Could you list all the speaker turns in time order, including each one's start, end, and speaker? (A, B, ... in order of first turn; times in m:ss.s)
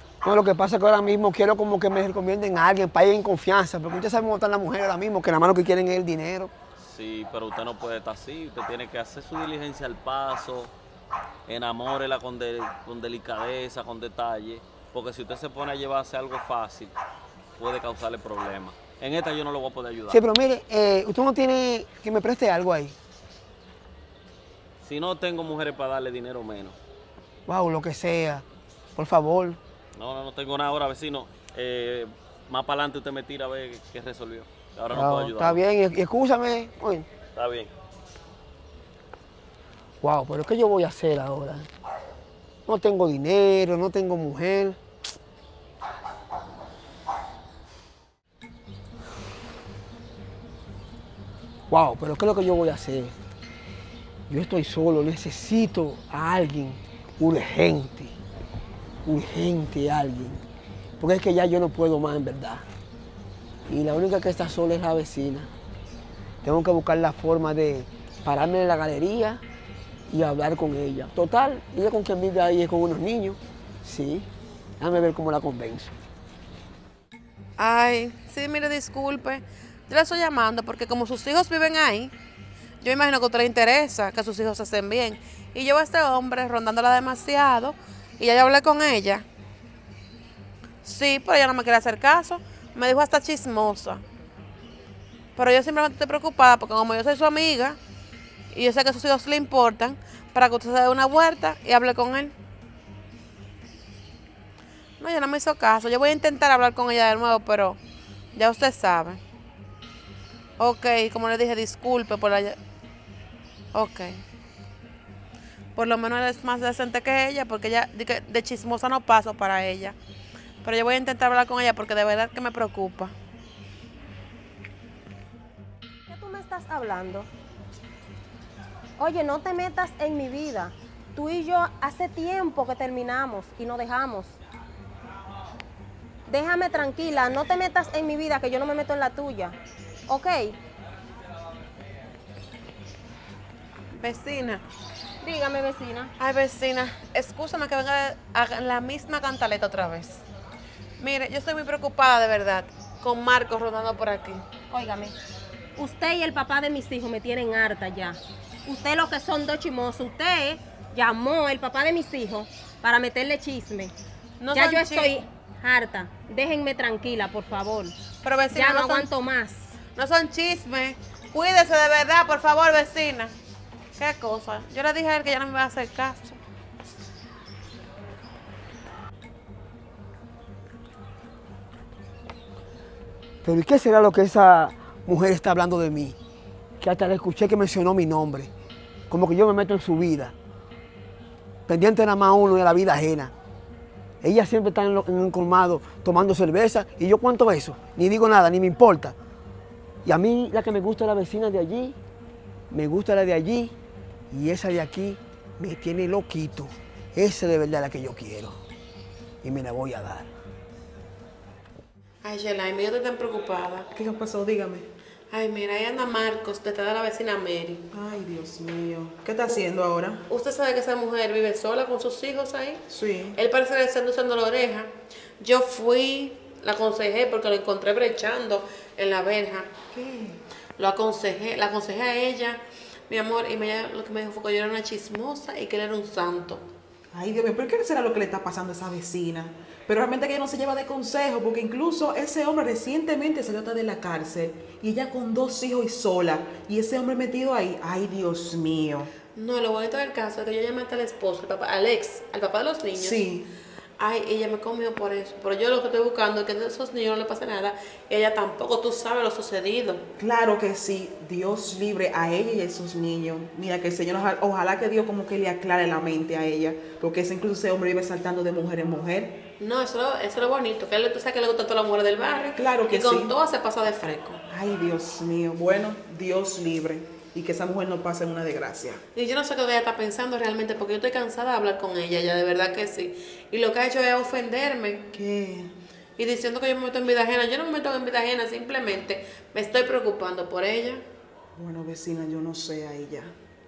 0:00.2-0:06.5 A
0:06.8-0:10.7 B
0:11.5-0:16.9 B
0:17.6-0:20.2 B
0:20.1-0:23.0 A
0:24.8-0:26.8 B
0:27.5-0:28.4 A
0:29.0-0:29.6 A
0:30.0-0:35.6 B
0:34.9-0:37.1 A
0:37.4-0:37.7 B
0:40.0-0:41.7 A
0:42.7-0:44.8 A
0:51.7-0:53.2 A
0:54.3-0:58.2 A
0:59.0-1:00.4 A
1:01.0-1:02.7 A
1:03.7-1:05.5 A
1:06.4-1:09.4 A
1:10.1-1:14.3 A
1:14.8-1:16.0 A
1:17.6-1:22.1 C
1:22.8-1:29.2 C
1:30.8-1:34.0 C
1:35.4-1:37.8 C
1:38.5-1:42.3 C
1:45.0-1:47.8 C
1:48.4-1:49.2 C
1:50.6-1:52.6 C
1:53.7-1:54.1 C
1:55.8-2:00.0 C
2:00.6-2:03.1 C
2:06.1-2:07.3 D
2:09.0-2:14.4 D
2:16.3-2:19.6 D
2:20.1-2:20.6 D
2:23.9-2:24.6 C
2:25.2-2:26.1 D
2:26.2-2:30.2 C
2:31.0-2:34.4 C
2:34.7-2:35.2 D
2:35.8-2:43.9 D
2:44.4-2:45.1 C
2:44.5-2:48.0 D
2:48.2-2:49.1 C
2:48.5-2:49.7 D
2:50.0-2:53.3 C
2:54.0-2:56.4 C
3:03.4-3:06.2 A
3:06.8-3:08.5 A
3:09.1-3:10.3 A
3:11.7-3:13.3 A
3:14.2-3:19.2 A
3:20.0-3:22.0 A
3:22.7-3:23.7 A
3:24.3-3:28.6 A
3:29.4-3:30.3 A
3:32.2-3:33.9 C
3:34.0-3:34.9 E
3:35.3-3:37.8 C
3:37.9-3:40.2 E
3:40.3-3:42.8 C
3:42.9-3:43.4 E
3:43.4-3:44.9 C
3:45.4-3:49.7 C
3:49.9-3:50.4 E
3:50.8-3:56.6 C
3:57.1-4:09.1 E
4:09.4-4:13.2 C
4:12.9-4:13.5 E
4:14.0-4:20.0 C
4:20.2-4:29.4 E
4:29.6-4:34.4 C
4:32.6-4:33.3 E
4:34.5-4:39.0 E
4:39.2-4:45.0 C
4:45.1-4:45.7 E
4:46.2-4:51.0 C
4:51.6-4:53.3 E